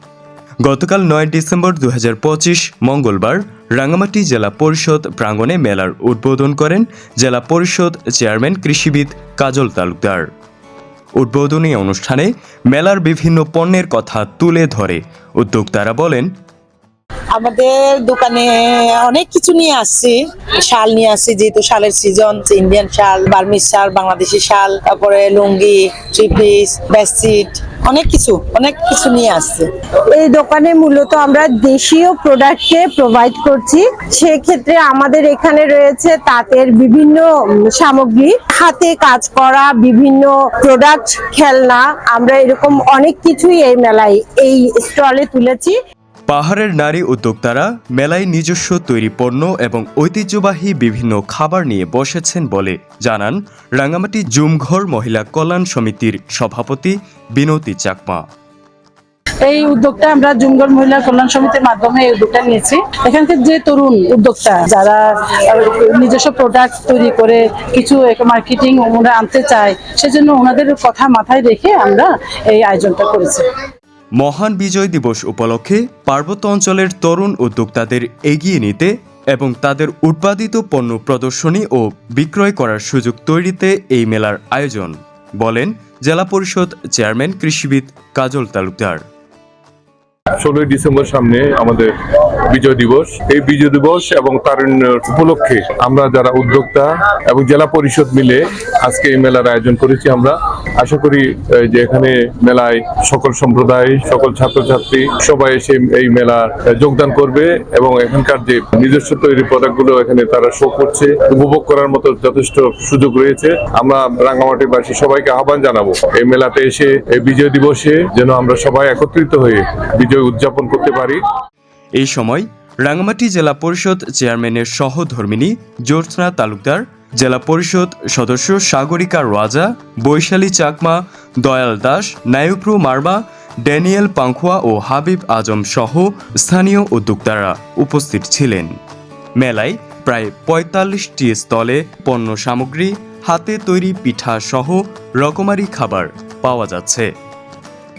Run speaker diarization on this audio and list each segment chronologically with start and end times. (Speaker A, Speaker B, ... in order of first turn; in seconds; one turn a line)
Speaker A: 0.6-10.3
Speaker A: 11.2-16.3
Speaker B: 17.3-20.1
Speaker B: 20.7-29.7
Speaker C: 30.1-45.8
Speaker A: 46.3-58.2
Speaker D: 59.4-73.4
Speaker A: 74.1-89.0
Speaker E: 90.4-91.9
Speaker E: 92.5-121.2
Speaker A: 122.0-138.8
Speaker A: 139.4-147.1